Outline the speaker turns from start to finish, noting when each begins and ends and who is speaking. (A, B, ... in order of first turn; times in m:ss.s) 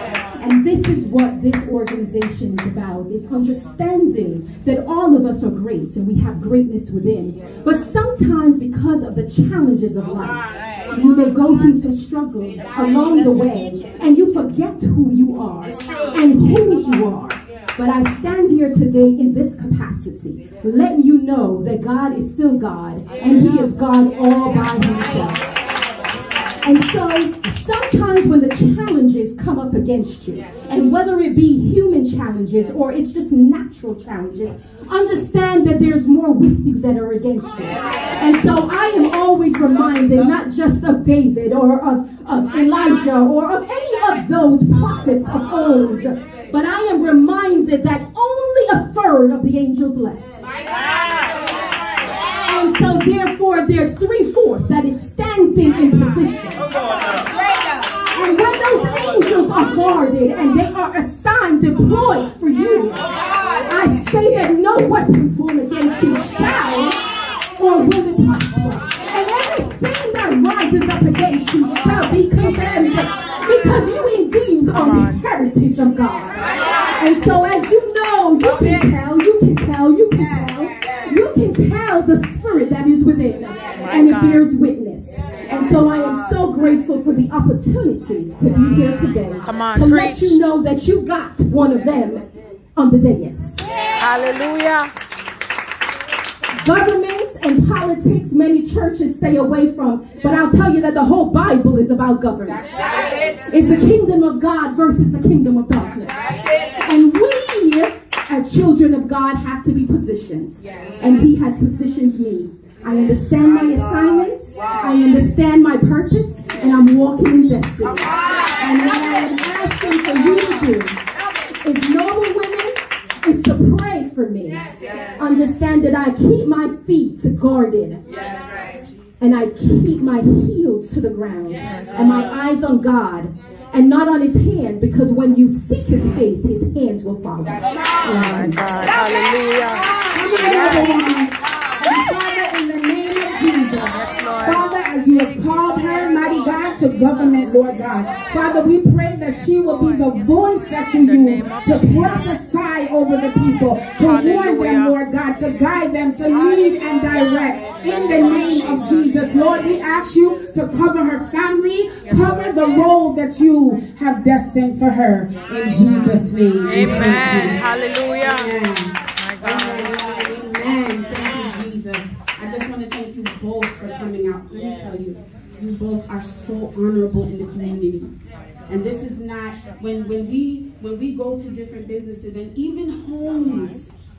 0:00.4-0:25.4 A
0:26.6-0:50.4 A
0:52.4-0:56.6 A
0:58.1-1:03.0 A
1:03.6-1:07.0 A
1:07.6-1:33.6 A
1:14.9-1:15.1 B
1:23.8-1:24.4 B
1:29.5-1:30.4 B
1:34.0-1:34.9 B
1:36.6-2:01.0 A
2:01.6-2:04.6 A
2:05.2-2:08.0 A
2:09.2-2:18.6 A
2:18.1-2:21.0 B
2:20.0-2:47.6 C
2:24.0-2:24.6 B
2:31.2-2:32.0 B
2:34.1-2:34.9 B
2:46.7-2:48.5 B
2:48.2-2:58.1 C
2:49.2-2:49.8 B
2:58.7-3:03.9 C